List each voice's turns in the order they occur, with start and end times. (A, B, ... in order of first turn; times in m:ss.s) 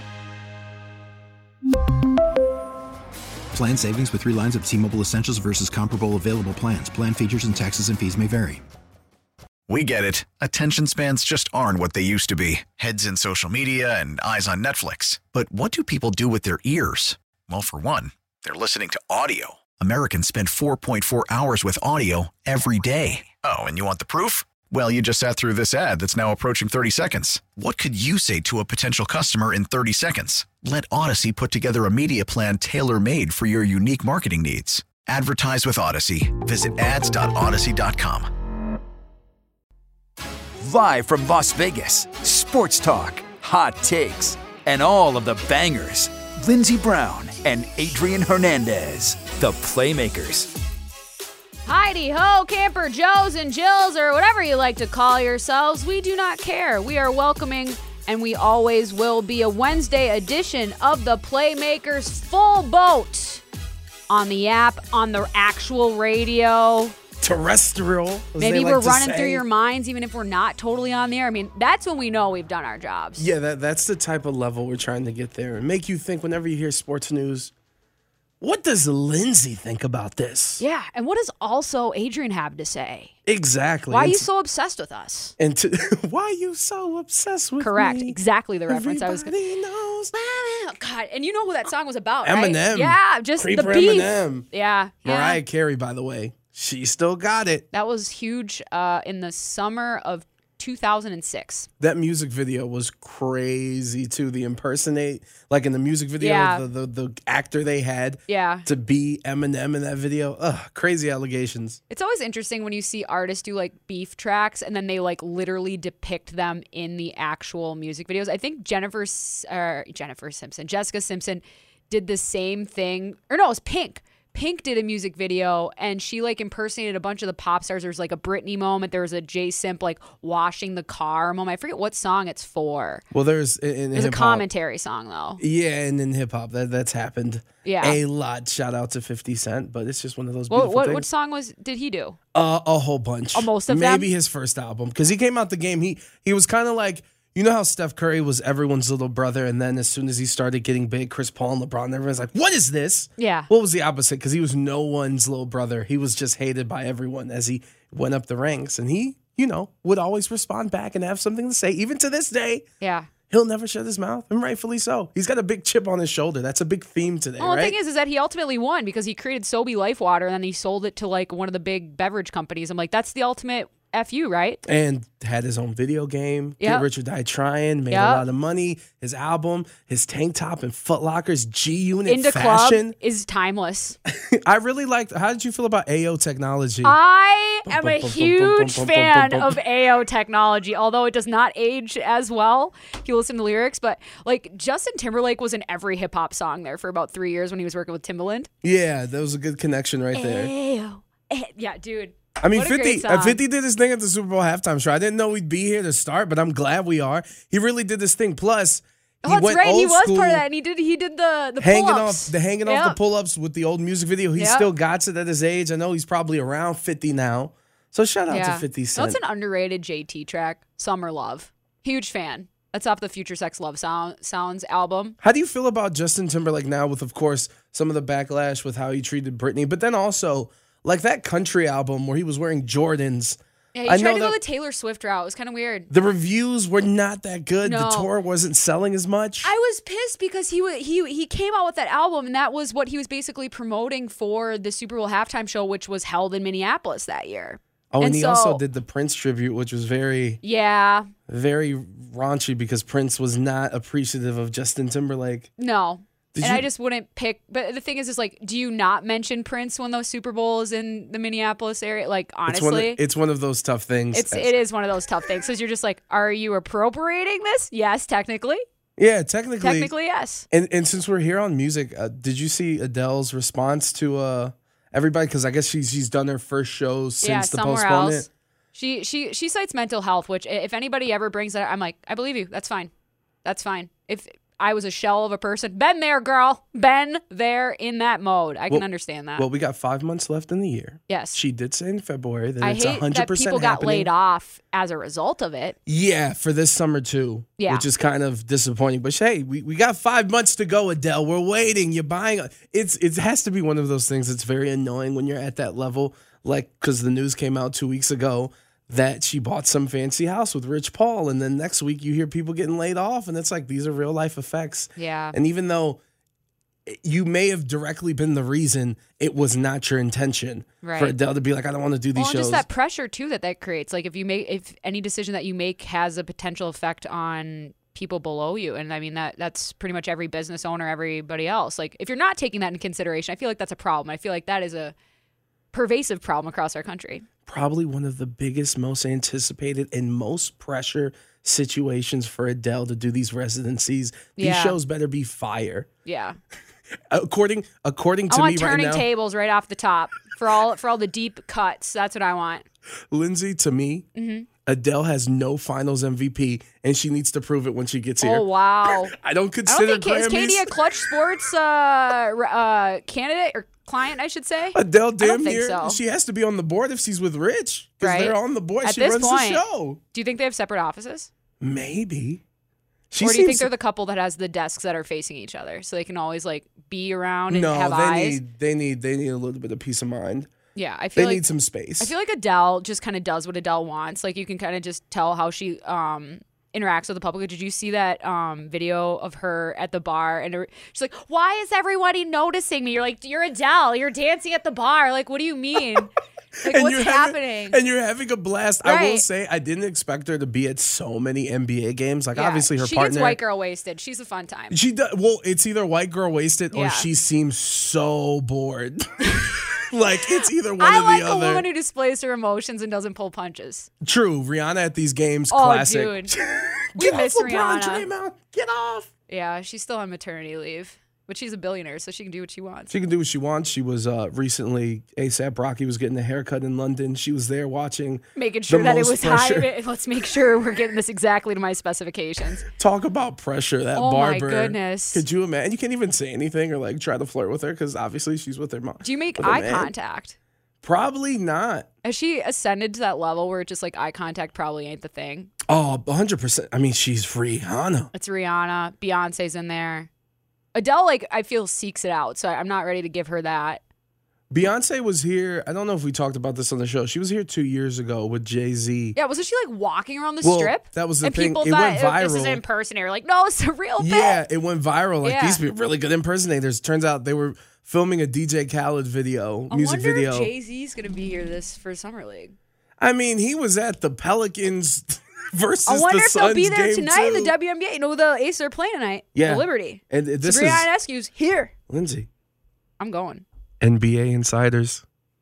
0:03.5-0:08.6 A
0:05.1-0:05.8 B
0:09.7-0:38.3 B
0:40.6-0:50.5 C
0:51.7-1:03.4 D
1:04.1-1:06.9 D
1:07.2-1:09.4 E
1:08.4-1:13.3 D
1:13.2-1:17.5 E
1:18.4-1:20.6 E
1:20.6-1:23.1 D
1:23.3-1:24.2 E
1:23.9-1:25.3 D
1:25.4-1:28.2 E
1:27.6-1:29.4 D
1:28.7-1:30.1 E
1:30.1-1:35.4 D
1:32.2-1:34.5 E
1:35.0-1:37.7 E
1:37.7-1:41.7 D
1:41.8-1:51.8 E
1:46.2-1:46.6 D
1:48.3-1:48.7 D
1:51.9-2:13.0 D
2:13.1-2:14.4 E
2:13.9-2:15.4 D
2:15.4-2:21.1 E
2:17.6-2:18.0 D
2:20.5-2:22.2 D
2:22.3-2:42.6 E
2:23.3-2:24.1 D
2:33.2-2:33.5 D
2:42.8-2:43.1 D
2:43.3-2:47.8 E
2:47.4-2:54.6 D
2:54.6-3:03.0 E
2:56.6-2:56.9 D
2:57.9-2:58.2 D
3:02.1-3:04.0 D
3:04.1-3:07.0 E
3:06.8-3:18.5 D
3:07.7-3:09.6 E
3:18.6-3:20.5 E
3:20.1-3:23.4 D
3:22.4-3:30.4 E
3:29.2-3:33.0 D
3:31.6-3:39.2 E
3:34.4-3:34.7 D
3:38.3-3:45.2 D
3:45.2-3:54.4 E
3:53.8-3:55.9 D
3:55.9-3:59.5 E
3:57.6-3:58.1 D
3:59.4-4:08.6 D
4:07.9-4:10.4 E
4:10.4-4:11.1 D
4:11.3-4:15.5 E
4:15.6-4:23.0 D
4:16.3-4:16.7 E
4:22.5-4:24.6 E
4:24.1-4:28.6 D
4:29.0-4:29.9 E
4:29.6-4:30.5 D
4:30.5-4:38.3 E
4:37.2-4:42.9 D
4:43.4-4:49.5 D
4:49.4-4:54.1 E
4:51.1-4:51.4 D
4:52.6-4:55.8 D
4:55.9-5:16.0 E
4:57.6-4:57.9 D
5:15.0-5:15.4 D
5:16.9-5:22.7 E
5:20.8-5:21.2 D
5:22.2-5:34.9 D
5:35.7-5:37.3 D
5:37.5-5:45.9 E
5:44.4-5:44.8 D
5:46.0-5:46.4 D
5:47.1-5:49.1 E
5:48.3-5:52.6 D
5:53.1-5:54.1 E
5:54.2-5:54.5 D
5:54.7-6:00.7 E
5:58.2-5:59.2 D
5:59.7-6:06.0 D
6:04.8-6:10.0 E
6:08.0-6:11.3 D
6:11.6-6:12.4 E
6:13.1-6:13.7 E
6:13.2-6:18.4 D
6:17.5-6:20.5 E
6:20.8-6:21.4 D
6:21.2-6:22.1 E
6:22.0-6:36.1 D
6:36.6-6:43.4 E
6:36.6-6:37.8 D
6:38.8-6:39.2 D
6:42.3-6:44.8 D
6:44.7-6:51.6 E
6:46.7-6:47.1 D
6:49.2-6:49.6 D
6:50.4-6:53.9 D
6:54.0-6:59.1 E
6:55.5-6:56.4 D
6:57.0-6:58.1 D
6:59.3-7:02.9 D
7:02.9-7:09.7 E
7:08.4-7:12.6 D
7:12.8-7:19.9 E
7:14.0-7:15.2 D
7:19.0-7:20.4 D
7:20.8-7:21.9 E
7:22.0-7:25.5 D
7:25.7-7:28.1 E
7:28.1-7:30.1 D
7:30.7-7:33.8 D
7:34.5-7:39.2 E
7:39.2-7:44.4 D
7:40.4-7:42.6 E
7:44.0-7:50.5 E
7:45.2-7:45.6 D
7:49.7-7:52.6 D
7:53.0-7:57.5 E
7:55.9-8:01.7 D
7:59.4-8:00.9 E
8:01.9-8:02.3 E
8:03.0-8:03.4 D
8:03.8-8:05.0 E